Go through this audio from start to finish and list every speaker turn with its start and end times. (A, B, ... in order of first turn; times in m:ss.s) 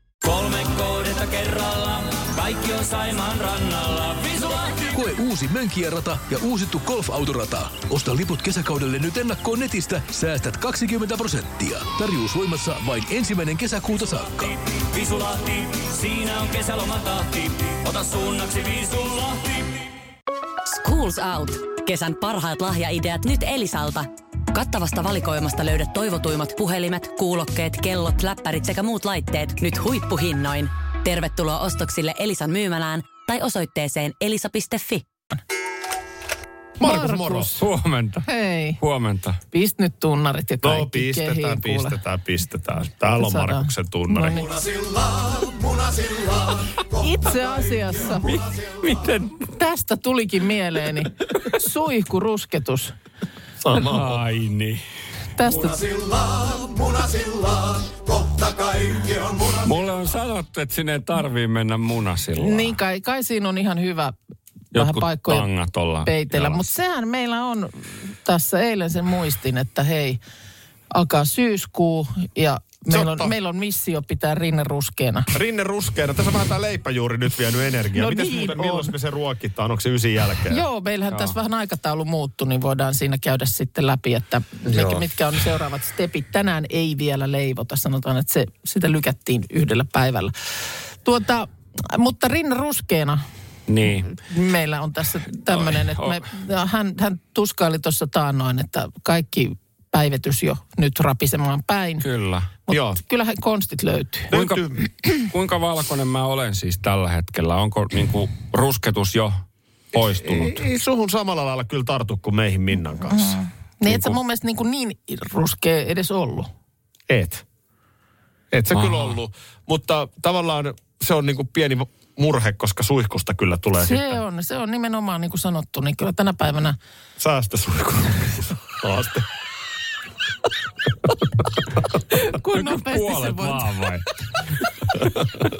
0:00.2-0:05.0 A
0:04.9-0:14.5 B
0:14.4-0:19.9 A
0:20.6-0:35.0 C
0:36.8-0:37.5 D
0:36.8-0:37.6 E
0:37.6-0:38.3 F
0:38.2-0:38.8 E
0:38.8-0:39.4 F
0:39.5-0:42.0 E
0:40.6-0:44.4 D
0:43.2-0:44.5 E
0:44.8-0:45.8 B
0:47.0-0:48.4 E
0:48.1-0:49.4 F
0:49.5-0:53.0 E
0:53.6-0:54.2 D
0:53.7-0:54.8 F
0:55.3-0:55.8 E
0:56.0-0:56.8 B
0:59.6-1:02.8 F
1:02.4-1:04.1 E
1:04.7-1:05.5 E
1:04.7-1:06.6 F
1:06.0-1:10.2 E
1:10.9-1:15.3 E
1:12.9-1:13.3 D
1:15.3-1:20.6 D
1:17.9-1:18.9 E
1:20.5-1:30.3 E
1:24.7-1:25.0 D
1:31.0-1:33.2 E
1:33.7-1:34.1 F
1:33.8-1:42.0 E
1:35.5-1:36.2 F
1:42.0-1:42.5 F
1:42.7-1:44.3 E
1:42.7-1:43.0 D
1:44.3-1:44.8 D
1:44.3-1:44.6 F
1:45.2-1:50.6 F
1:49.9-1:53.4 D
1:53.0-1:56.5 E
1:57.1-1:57.4 D
1:58.5-2:04.2 D
1:58.7-1:59.2 F
2:03.8-2:06.8 E
2:07.2-2:09.2 D
2:12.1-2:13.8 E
2:12.5-2:14.1 F
2:14.4-2:14.9 E